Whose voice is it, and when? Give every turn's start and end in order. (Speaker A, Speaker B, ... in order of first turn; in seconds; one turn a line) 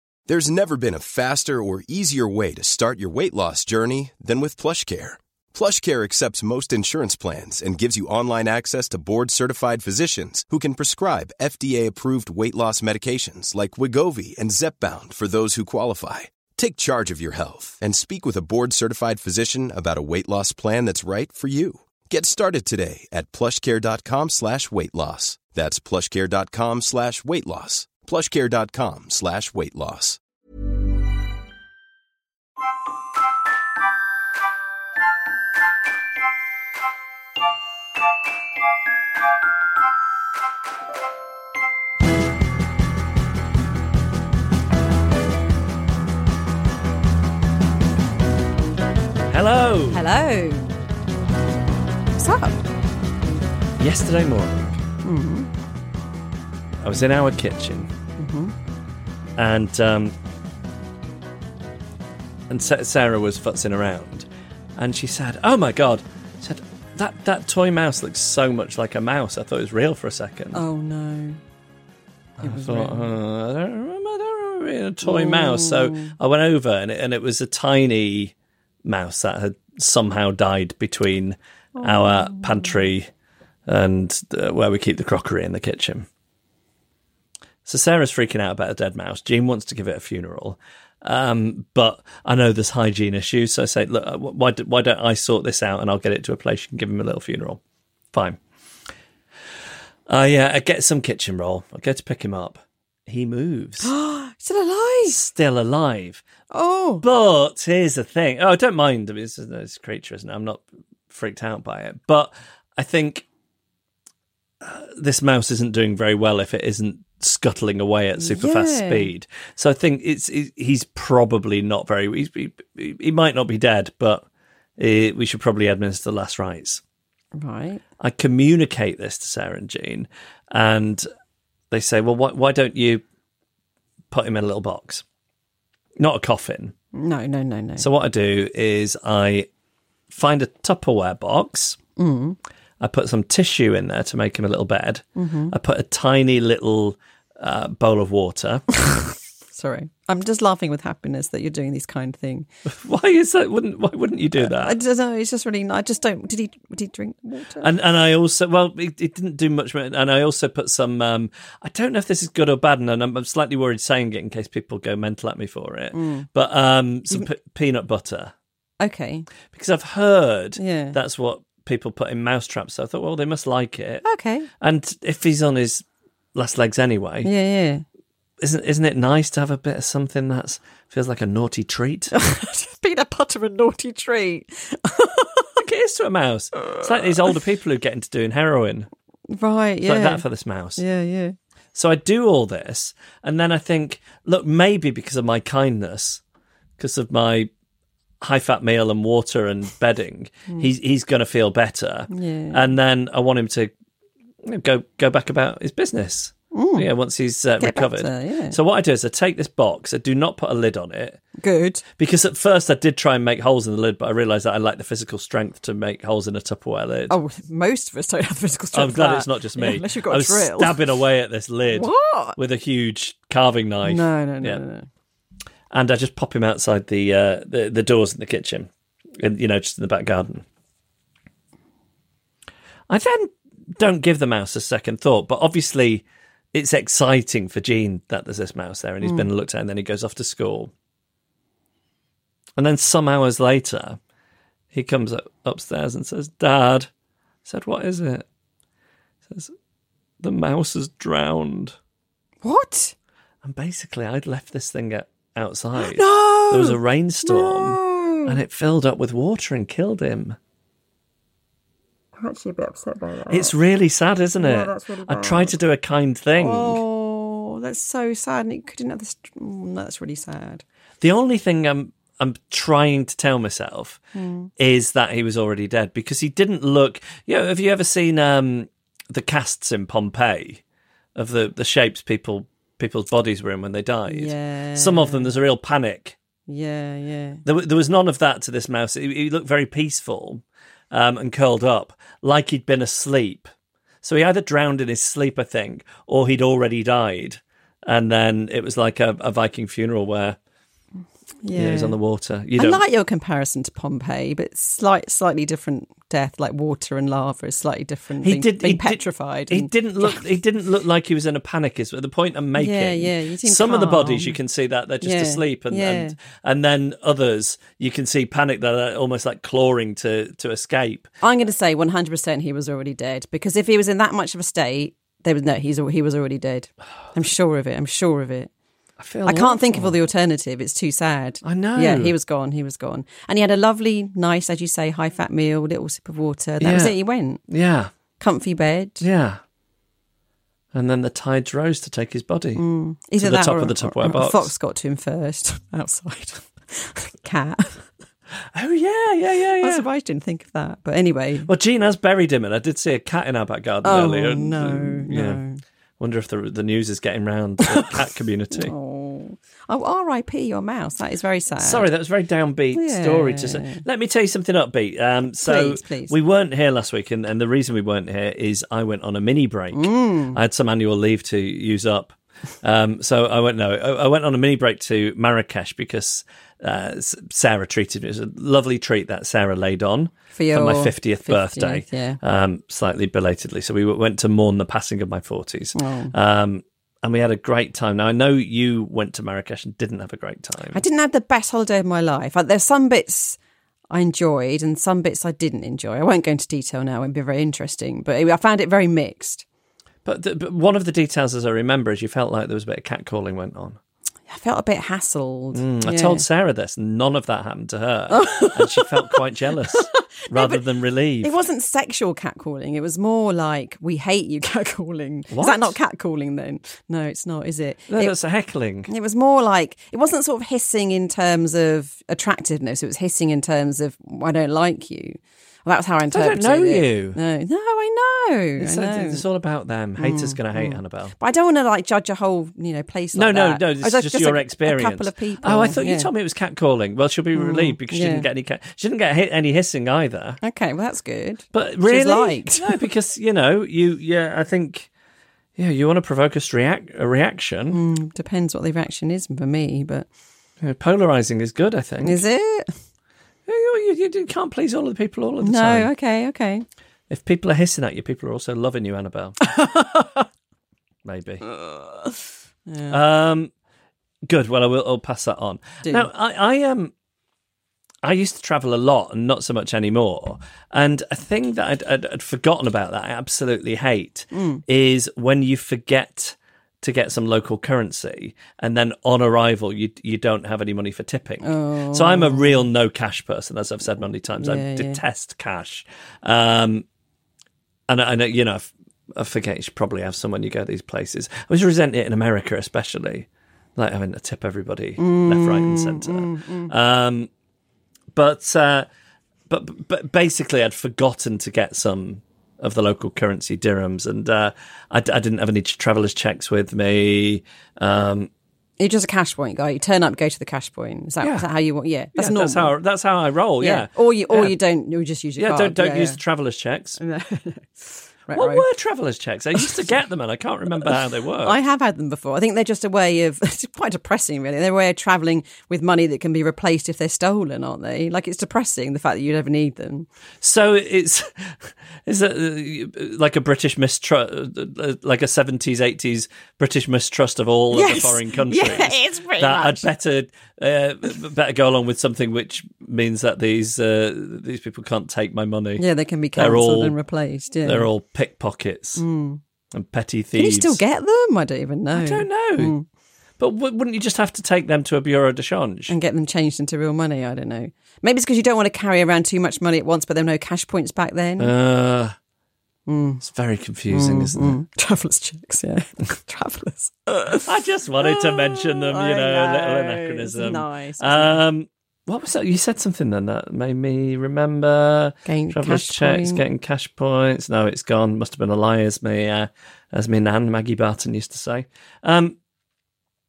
Speaker A: 0.3-30.2
Speaker B: 49.3-50.0
Speaker C: 49.9-50.7
Speaker C: 52.2-52.6
Speaker B: 53.8-54.8
Speaker C: 55.0-55.5
Speaker B: 56.8-57.9
Speaker C: 58.2-58.5
Speaker B: 59.4-60.1
Speaker B: 62.5-70.6
Speaker C: 70.5-71.4
Speaker B: 72.4-78.3
Speaker C: 72.4-73.1
Speaker C: 75.0-76.2
Speaker B: 78.8-83.1
Speaker C: 81.8-82.7
Speaker B: 83.7-86.1
Speaker B: 87.7-97.6
Speaker B: 98.1-98.4
Speaker B: 100.1-103.9
Speaker C: 103.8-105.2
Speaker B: 105.1-106.2
Speaker C: 106.5-107.0
Speaker B: 107.0-113.2
Speaker B: 114.6-124.2
Speaker C: 118.2-119.1
Speaker B: 124.8-126.8
Speaker C: 127.4-127.8
Speaker B: 128.0-131.1
Speaker B: 131.7-133.0
Speaker B: 134.1-135.0
Speaker B: 136.0-136.7
Speaker C: 136.9-137.9
Speaker B: 137.8-139.5
Speaker B: 140.1-141.8
Speaker C: 142.0-142.4
Speaker B: 142.8-148.7
Speaker C: 145.2-145.6
Speaker C: 148.8-152.5
Speaker B: 152.7-154.8
Speaker C: 154.4-157.7
Speaker B: 157.6-168.3
Speaker C: 165.9-166.3
Speaker C: 168.8-169.3
Speaker B: 169.5-174.1
Speaker C: 170.6-171.0
Speaker C: 174.1-174.5
Speaker B: 174.6-175.8
Speaker B: 176.3-177.3
Speaker C: 177.2-177.8
Speaker B: 178.4-182.1
Speaker C: 182.1-185.6
Speaker B: 185.6-188.9
Speaker C: 189.3-190.2
Speaker B: 189.9-190.8
Speaker C: 190.8-191.4
Speaker B: 191.8-196.2
Speaker B: 196.8-197.5
Speaker B: 198.2-203.7
Speaker C: 202.1-202.7
Speaker B: 204.4-211.2
Speaker C: 206.5-206.9
Speaker C: 207.6-208.6
Speaker C: 211.4-211.8
Speaker B: 212.0-217.2
Speaker C: 217.1-220.8
Speaker B: 218.7-224.6
Speaker C: 221.7-222.4
Speaker C: 223.8-224.9
Speaker B: 225.7-230.4
Speaker B: 232.9-240.7
Speaker B: 242.6-244.0
Speaker B: 244.7-246.9
Speaker B: 247.5-248.3
Speaker B: 250.2-251.8
Speaker C: 252.4-252.9
Speaker B: 253.4-260.4
Speaker C: 255.8-258.4
Speaker C: 262.2-263.6
Speaker B: 263.3-266.8
Speaker C: 264.4-265.6
Speaker C: 266.4-270.6
Speaker B: 271.0-274.0
Speaker C: 274.1-274.5
Speaker B: 274.6-280.6
Speaker B: 281.2-286.2
Speaker C: 284.1-285.3
Speaker C: 286.5-287.4
Speaker B: 287.4-293.5
Speaker B: 294.0-300.4
Speaker C: 301.4-302.0
Speaker B: 301.5-302.8
Speaker C: 302.6-310.2
Speaker B: 308.2-321.1
Speaker C: 312.6-314.4
Speaker C: 315.0-316.1
Speaker C: 321.2-328.5
Speaker B: 329.0-330.0
Speaker C: 329.3-337.4
Speaker B: 331.4-332.1
Speaker B: 336.6-337.0
Speaker B: 337.5-337.9
Speaker C: 338.2-339.0
Speaker B: 339.0-339.4
Speaker B: 340.7-342.6
Speaker C: 342.6-347.9
Speaker B: 343.2-344.5
Speaker B: 348.6-349.9
Speaker C: 349.6-351.5
Speaker B: 351.5-355.4
Speaker C: 353.8-355.6
Speaker B: 356.0-358.7
Speaker C: 358.6-361.9
Speaker B: 361.6-390.8
Speaker C: 362.7-363.8
Speaker C: 365.4-366.1
Speaker C: 369.7-370.4
Speaker C: 380.4-382.2
Speaker C: 385.8-386.1
Speaker C: 390.7-393.4
Speaker C: 393.9-399.4
Speaker B: 400.1-403.8
Speaker C: 404.3-406.2
Speaker B: 405.5-411.4
Speaker C: 408.1-410.6
Speaker C: 411.2-418.1
Speaker B: 415.3-415.8
Speaker B: 417.9-418.9
Speaker C: 418.9-429.2
Speaker B: 426.1-427.2
Speaker B: 428.6-431.1
Speaker C: 430.0-436.1
Speaker B: 433.1-440.4
Speaker C: 437.4-438.3
Speaker C: 440.4-442.8
Speaker B: 441.5-444.9
Speaker B: 445.6-447.8
Speaker C: 447.7-450.1
Speaker B: 450.6-452.2
Speaker C: 452.0-452.7
Speaker B: 453.5-455.9
Speaker C: 455.4-456.6
Speaker B: 457.1-459.5
Speaker C: 459.5-460.2
Speaker B: 461.1-461.4
Speaker C: 461.5-463.0
Speaker B: 462.9-463.5
Speaker B: 464.3-466.9
Speaker C: 465.8-466.1
Speaker B: 468.0-486.9
Speaker C: 474.3-474.6
Speaker C: 481.4-482.7
Speaker C: 484.4-485.0
Speaker B: 487.9-497.3
Speaker C: 495.0-496.7
Speaker B: 498.1-498.9
Speaker B: 499.5-508.3
Speaker C: 508.8-512.7
Speaker B: 511.2-511.5
Speaker B: 512.1-514.6
Speaker C: 513.6-516.2
Speaker B: 515.4-517.0
Speaker C: 517.0-518.6
Speaker B: 518.3-521.6
Speaker C: 519.6-519.8
Speaker C: 521.4-530.1
Speaker B: 530.4-547.0
Speaker C: 537.7-539.9
Speaker C: 545.8-547.9
Speaker B: 547.6-549.0
Speaker C: 549.0-549.4
Speaker B: 549.7-550.8
Speaker C: 550.4-552.9
Speaker B: 551.9-552.8
Speaker B: 553.4-556.0
Speaker C: 555.9-561.5
Speaker B: 561.4-562.2
Speaker C: 562.9-563.2
Speaker B: 563.2-564.6
Speaker C: 563.9-567.5
Speaker B: 567.4-582.4
Speaker C: 568.0-571.4
Speaker C: 575.3-576.4